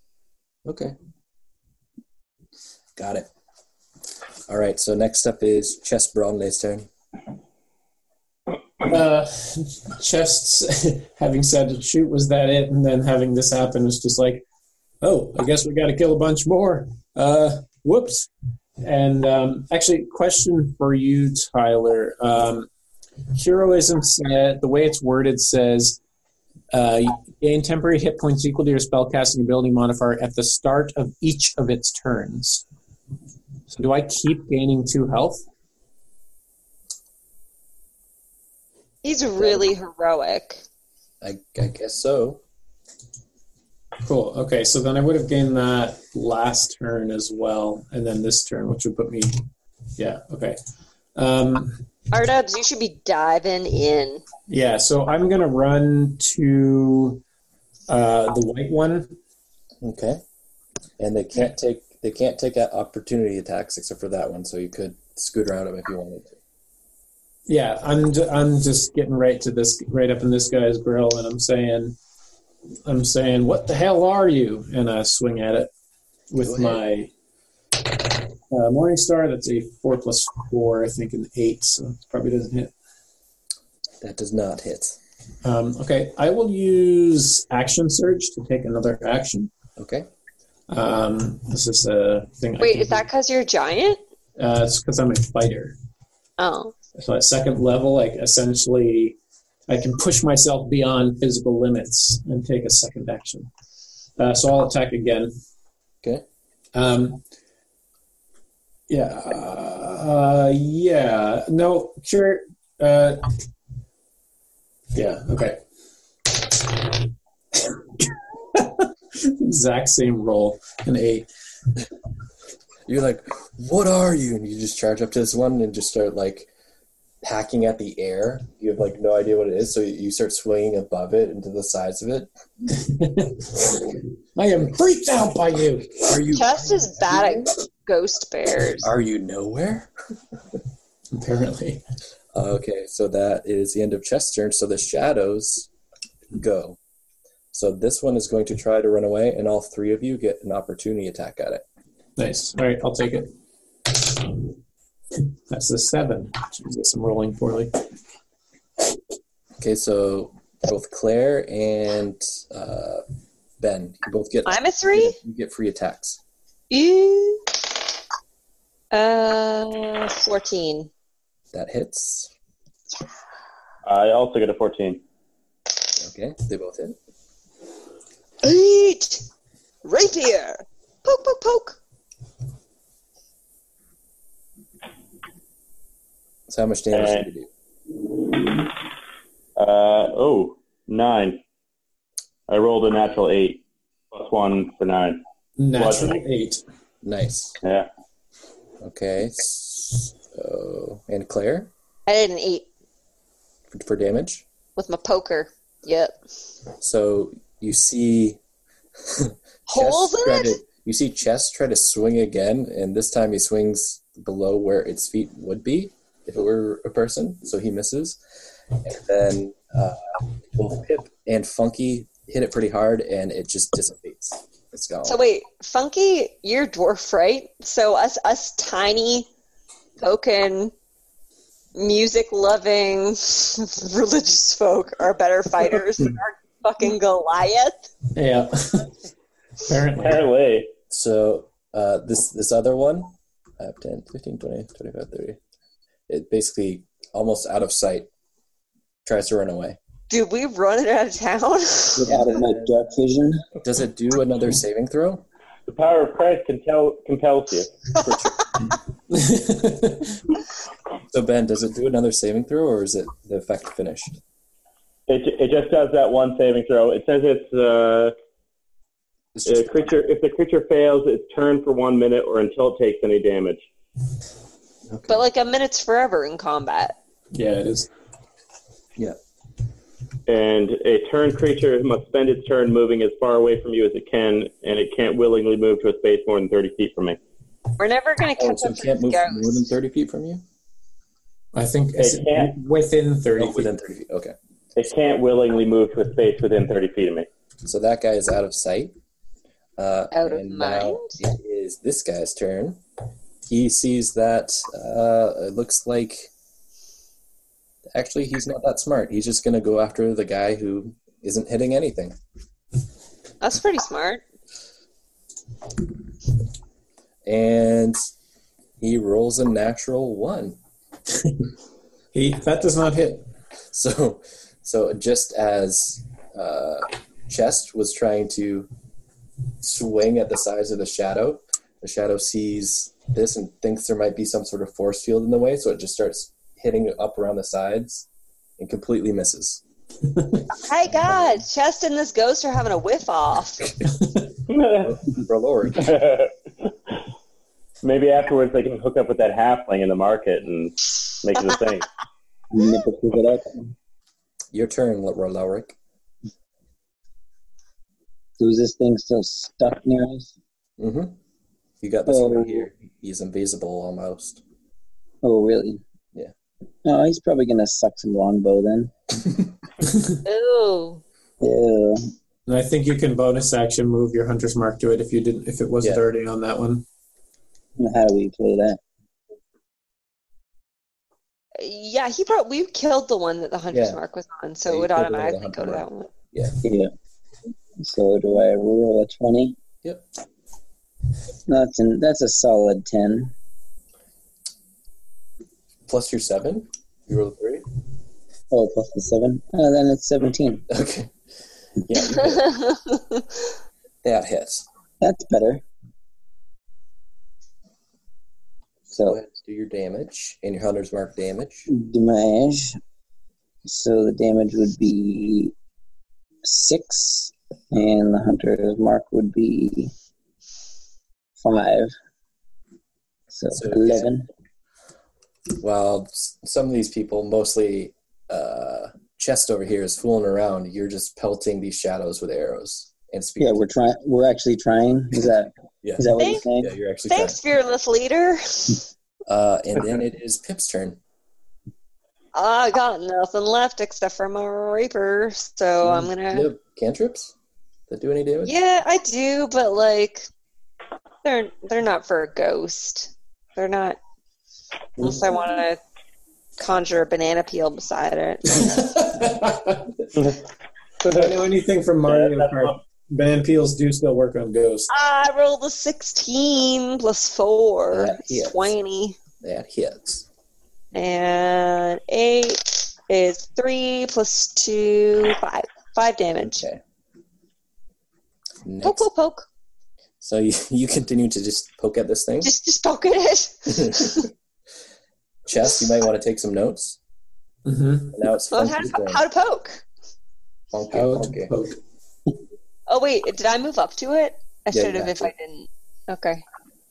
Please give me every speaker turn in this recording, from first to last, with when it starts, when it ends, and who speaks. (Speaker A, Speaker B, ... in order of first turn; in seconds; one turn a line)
Speaker A: 0.6-0.9
Speaker A: 3.0-3.3
Speaker A: 4.5-6.9
Speaker B: 8.8-14.4
Speaker B: 15.0-18.3
Speaker B: 18.8-22.7
Speaker B: 23.3-26.0
Speaker B: 26.7-32.6
Speaker B: 33.7-35.4
Speaker C: 39.0-40.6
Speaker A: 39.4-39.7
Speaker A: 41.2-42.4
Speaker B: 44.0-49.4
Speaker B: 50.0-50.6
Speaker B: 51.1-51.8
Speaker C: 52.1-54.2
Speaker B: 54.5-57.2
Speaker B: 57.9-59.1
Speaker A: 59.8-60.2
Speaker A: 61.0-66.4
Speaker B: 67.5-72.0
Speaker B: 72.8-75.7
Speaker B: 76.3-77.1
Speaker A: 76.4-76.8
Speaker B: 77.8-82.7
Speaker A: 84.0-85.0
Speaker B: 85.4-89.5
Speaker A: 89.8-90.1
Speaker B: 90.7-93.0
Speaker C: 92.6-94.0
Speaker B: 94.4-95.7
Speaker C: 96.4-96.8
Speaker B: 97.0-99.2
Speaker B: 99.7-103.5
Speaker B: 104.2-105.3
Speaker B: 106.7-107.2
Speaker B: 108.9-113.3
Speaker B: 114.9-115.6
Speaker B: 116.3-117.0
Speaker B: 117.5-121.3
Speaker A: 122.9-126.5
Speaker A: 127.2-132.3
Speaker B: 132.7-136.2
Speaker A: 136.0-137.5
Speaker C: 136.3-138.9
Speaker A: 138.8-139.9
Speaker B: 141.1-141.8
Speaker A: 142.3-145.7
Speaker A: 146.3-146.8
Speaker A: 147.5-151.6
Speaker B: 152.2-153.3
Speaker B: 153.9-154.5
Speaker B: 155.1-157.9
Speaker A: 159.6-163.0
Speaker A: 163.6-166.2
Speaker C: 164.4-165.2
Speaker C: 166.7-167.5
Speaker C: 168.9-170.9
Speaker A: 171.5-172.3
Speaker D: 173.8-175.0
Speaker A: 176.0-177.0
Speaker C: 178.4-179.2
Speaker C: 179.8-181.8
Speaker A: 186.5-187.5
Speaker D: 186.9-187.3
Speaker D: 189.6-191.4
Speaker D: 192.5-195.2
Speaker B: 195.6-196.6
Speaker D: 195.8-196.2
Speaker A: 197.0-197.6
Speaker D: 197.6-197.9
Speaker A: 198.8-201.7
Speaker C: 202.1-202.7
Speaker A: 203.7-204.4
Speaker C: 204.8-206.2
Speaker A: 206.8-208.4
Speaker A: 209.1-218.2
Speaker C: 209.7-210.6
Speaker A: 218.8-220.0
Speaker A: 220.5-225.2
Speaker C: 225.1-229.3
Speaker C: 230.0-230.7
Speaker C: 231.7-237.9
Speaker B: 238.1-239.0
Speaker B: 239.6-240.2
Speaker D: 239.9-240.7
Speaker A: 240.9-245.4
Speaker A: 246.1-248.1
Speaker A: 249.0-249.8
Speaker C: 250.1-252.1
Speaker E: 251.9-253.4
Speaker A: 252.0-252.7
Speaker A: 253.6-255.2
Speaker D: 255.7-257.7
Speaker A: 258.0-258.6
Speaker B: 259.1-260.2
Speaker A: 261.1-264.2
Speaker D: 265.1-268.1
Speaker A: 269.3-270.0
Speaker D: 269.4-273.6
Speaker A: 274.9-275.2
Speaker C: 275.1-276.9
Speaker B: 277.3-277.9
Speaker D: 280.3-287.2
Speaker C: 287.8-289.7
Speaker A: 288.4-290.4
Speaker B: 291.5-293.7
Speaker D: 292.0-292.5
Speaker A: 293.4-294.3
Speaker D: 294.8-297.3
Speaker A: 297.6-298.9
Speaker A: 299.8-302.8
Speaker C: 300.1-301.2
Speaker A: 303.4-306.3
Speaker A: 307.9-312.1
Speaker C: 313.4-314.2
Speaker A: 317.2-318.0
Speaker A: 318.8-320.6
Speaker B: 321.2-321.5
Speaker B: 322.1-323.2
Speaker A: 323.7-328.7
Speaker A: 329.6-338.1
Speaker A: 338.6-339.6
Speaker C: 340.6-343.7
Speaker A: 341.1-341.3
Speaker D: 344.5-344.9
Speaker A: 344.7-345.9
Speaker D: 345.7-346.7
Speaker D: 347.8-351.9
Speaker E: 352.5-353.7
Speaker A: 354.5-355.8
Speaker E: 358.4-360.3
Speaker A: 360.8-361.1
Speaker A: 361.8-364.4
Speaker E: 362.1-362.7
Speaker E: 365.2-365.8
Speaker E: 366.8-368.9
Speaker C: 370.2-371.0
Speaker E: 371.4-372.1
Speaker B: 372.5-376.8
Speaker E: 377.8-378.8
Speaker C: 381.6-386.1
Speaker A: 383.7-384.0
Speaker A: 384.6-386.6
Speaker E: 386.6-386.9
Speaker E: 387.8-389.6
Speaker E: 391.5-393.3
Speaker A: 395.9-397.6
Speaker E: 398.5-400.6
Speaker A: 400.7-401.1
Speaker A: 401.8-402.6
Speaker C: 402.7-403.2
Speaker A: 404.0-404.6
Speaker E: 405.0-405.6
Speaker E: 408.9-409.2
Speaker A: 409.0-411.7
Speaker E: 411.7-412.8
Speaker E: 413.6-415.5
Speaker E: 416.4-419.9
Speaker E: 421.4-421.9
Speaker E: 423.3-424.2
Speaker A: 423.5-424.1
Speaker A: 425.6-433.7
Speaker E: 433.4-436.7
Speaker A: 435.8-437.4
Speaker C: 436.2-436.4
Speaker C: 437.1-438.9
Speaker A: 439.3-441.0
Speaker C: 442.3-446.5
Speaker A: 445.8-447.3
Speaker A: 447.9-448.5
Speaker C: 448.4-450.3
Speaker C: 451.2-454.0
Speaker C: 455.0-455.8
Speaker C: 456.6-459.0
Speaker B: 458.6-460.1
Speaker D: 460.1-460.4
Speaker B: 461.0-464.9
Speaker D: 462.1-462.7
Speaker C: 464.9-469.2
Speaker A: 467.9-468.7
Speaker A: 469.4-470.2
Speaker C: 470.9-476.6
Speaker A: 476.4-476.8
Speaker A: 478.6-479.1
Speaker C: 478.8-479.5
Speaker A: 480.2-482.5
Speaker C: 482.4-484.3
Speaker A: 483.8-484.2
Speaker A: 485.4-487.0
Speaker B: 487.6-488.2
Speaker A: 488.1-489.2
Speaker C: 488.5-489.8
Speaker A: 490.7-491.5
Speaker B: 490.9-491.8
Speaker C: 492.9-496.4
Speaker A: 494.7-495.3